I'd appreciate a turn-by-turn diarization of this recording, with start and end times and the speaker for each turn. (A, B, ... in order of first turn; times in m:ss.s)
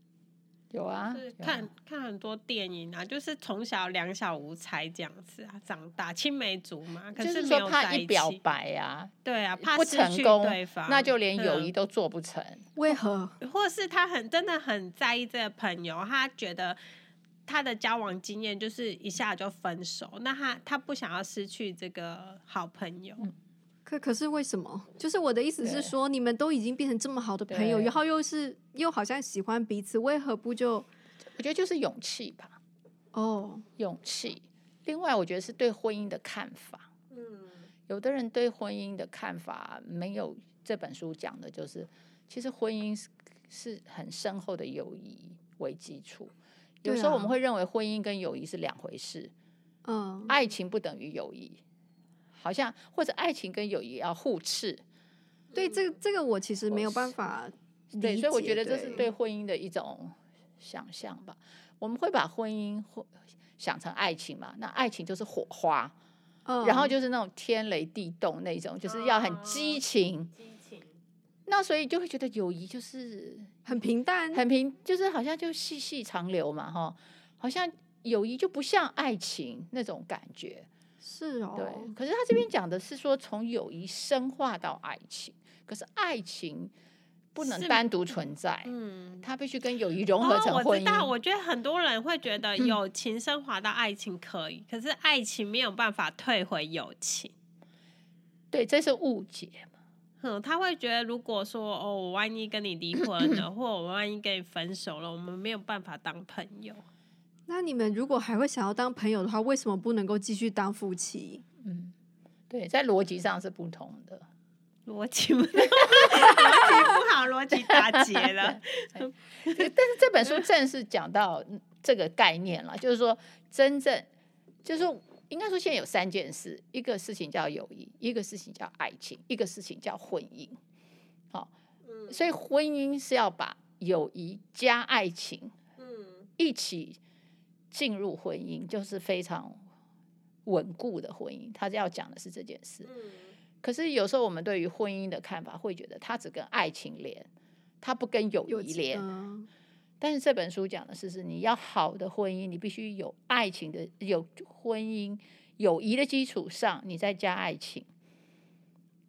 0:00.7-0:01.7 A
0:01.0-0:08.4 B
0:07.2-0:12.7 A
0:09.2-0:11.7 B
0:12.8-0:13.4 C
0:13.4-0:16.8 B
0:17.4-0:23.2 B
0:23.8-0:30.9 C
0:25.6-0:25.9 A
0:27.5-0:28.0 A
0:31.4-0:32.6 A
0:33.1-0:33.7 C
0:33.8-0:36.9 A
0:37.1-0:37.6 B
0:37.9-0:49.3 A
0:46.8-0:47.3 C
0:49.8-0:50.3 C
0:50.3-0:51.6 A
0:52.3-0:54.8 A
0:55.5-0:59.0 C
0:56.7-0:57.1 A
0:58.0-1:05.9 A
1:06.4-1:06.9 C
1:06.6-1:10.3 A
1:08.8-1:09.8 B
1:10.4-1:10.8 B
1:11.5-1:13.6 A
1:13.6-1:14.4 C
1:14.3-1:20.7 A
1:21.0-1:21.9 C
1:21.6-1:26.7 A
1:27.3-1:28.7 A
1:27.4-1:27.8 B
1:28.6-1:29.2 B
1:29.2-1:31.1 A
1:30.2-1:37.3 B
1:38.5-1:39.7 A
1:40.2-1:46.8 B
1:47.5-1:51.4 C
1:51.6-1:51.9 A
1:52.5-1:54.2 A
1:54.8-1:59.7 B
1:55.6-1:56.9 A
1:57.6-2:04.1 A
2:04.6-2:10.6 A
2:11.8-2:12.2 B
2:12.1-2:15.5 A
2:15.8-2:16.3 B
2:16.4-2:17.0 A
2:17.7-2:19.6 A
2:20.4-2:22.9 A
2:22.8-2:23.3 B
2:23.6-2:27.3 A
2:27.8-2:29.0 A
2:28.5-2:29.5 C
2:30.0-2:37.9 A